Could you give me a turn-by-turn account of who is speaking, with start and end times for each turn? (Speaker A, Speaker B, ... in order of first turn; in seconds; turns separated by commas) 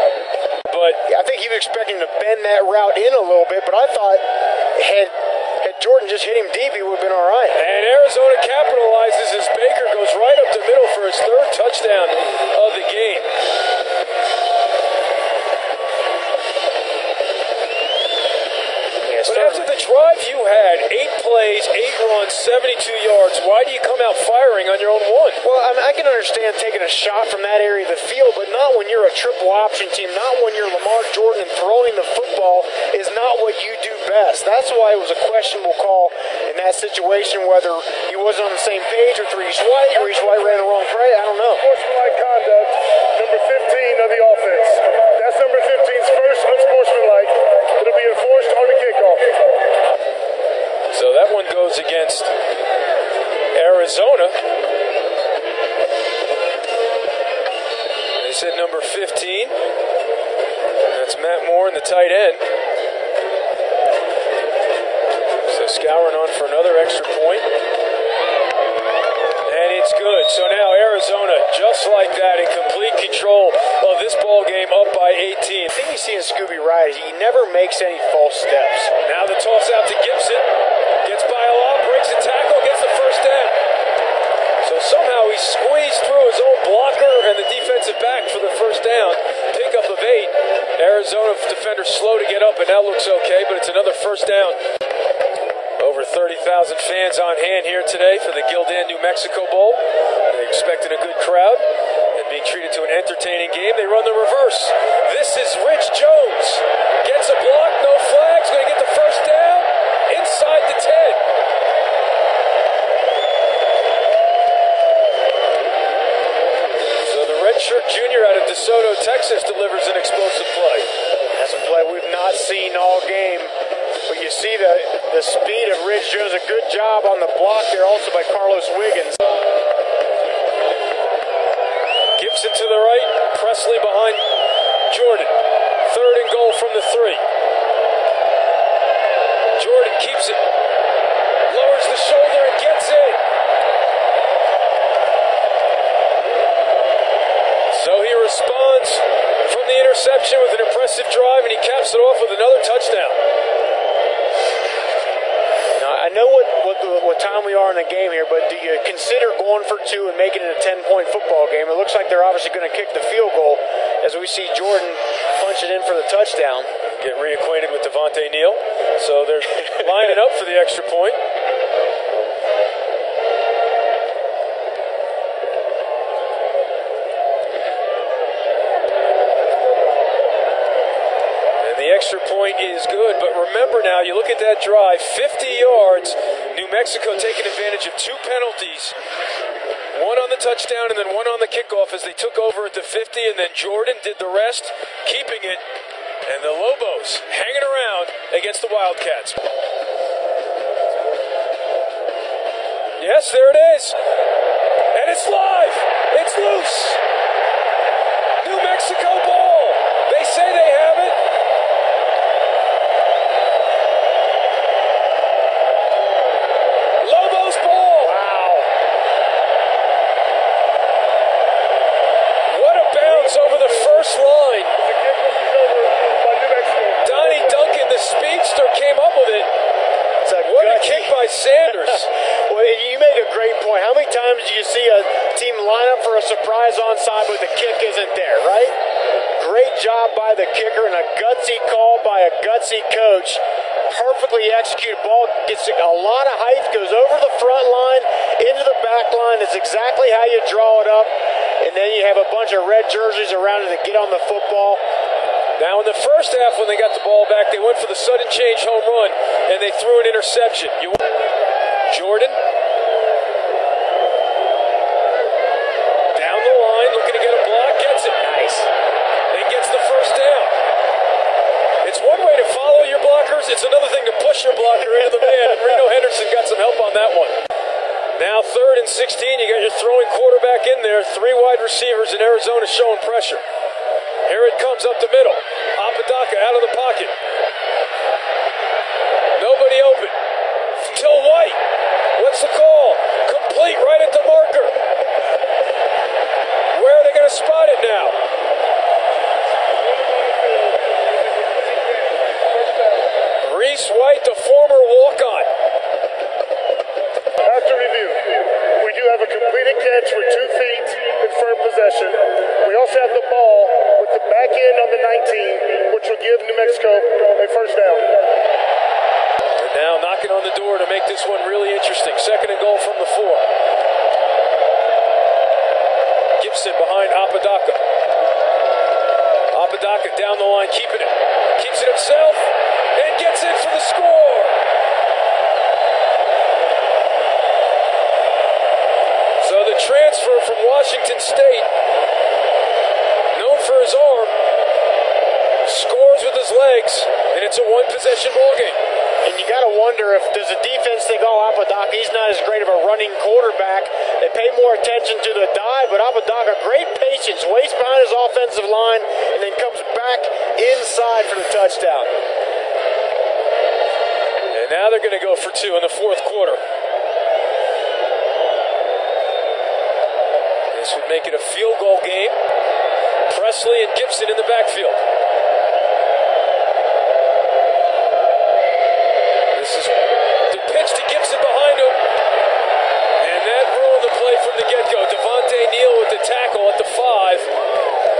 Speaker A: 0.7-1.0, Speaker B: 1.1-7.6, Speaker A: 7.5-13.3, Speaker B: 19.0-19.7, Speaker A: 19.2-25.4, Speaker B: 25.4-41.6, Speaker C: 41.6-49.3, Speaker A: 50.9-52.3, Speaker A: 53.5-54.4, Speaker A: 58.2-59.6, Speaker A: 60.9-62.5, Speaker A: 65.4-67.5, Speaker A: 69.5-75.7, Speaker B: 75.7-78.9, Speaker A: 79.0-80.5, Speaker A: 81.0-83.6, Speaker A: 84.6-94.6, Speaker A: 95.8-111.2, Speaker A: 117.0-120.9, Speaker B: 121.3-123.5, Speaker B: 124.0-129.2, Speaker A: 132.2-134.2, Speaker A: 134.9-135.3, Speaker A: 135.8-137.2, Speaker A: 139.6-140.4, Speaker A: 141.5-143.2, Speaker A: 147.7-153.2, Speaker B: 155.8-166.7, Speaker A: 166.8-171.2, Speaker A: 181.6-188.9, Speaker A: 189.9-195.6, Speaker A: 196.2-199.4, Speaker A: 203.0-203.9, Speaker A: 204.9-207.0, Speaker A: 208.4-211.2, Speaker A: 217.0-218.1, Speaker B: 218.0-218.7, Speaker A: 222.4-224.7, Speaker C: 223.1-224.2, Speaker C: 224.8-227.6, Speaker A: 227.0-229.5, Speaker B: 230.2-238.7, Speaker A: 230.4-232.1, Speaker B: 239.4-254.8, Speaker A: 255.6-261.0, Speaker A: 261.9-262.4, Speaker A: 266.1-268.3, Speaker B: 268.2-268.7, Speaker A: 269.3-270.5, Speaker A: 271.8-277.4, Speaker A: 278.1-283.4, Speaker A: 284.2-287.1, Speaker A: 289.3-290.1, Speaker A: 290.8-291.6, Speaker A: 292.1-294.8, Speaker A: 296.7-298.1, Speaker A: 303.4-305.5, Speaker C: 307.4-318.2, Speaker A: 319.6-323.4, Speaker A: 326.4-327.8, Speaker A: 329.5-334.6, Speaker A: 339.4-341.7, Speaker A: 343.3-344.3, Speaker A: 345.6-348.8, Speaker B: 349.2-362.1, Speaker A: 364.5-366.6, Speaker A: 370.7-372.4, Speaker A: 373.3-375.0, Speaker A: 379.5-382.0, Speaker A: 383.2-387.5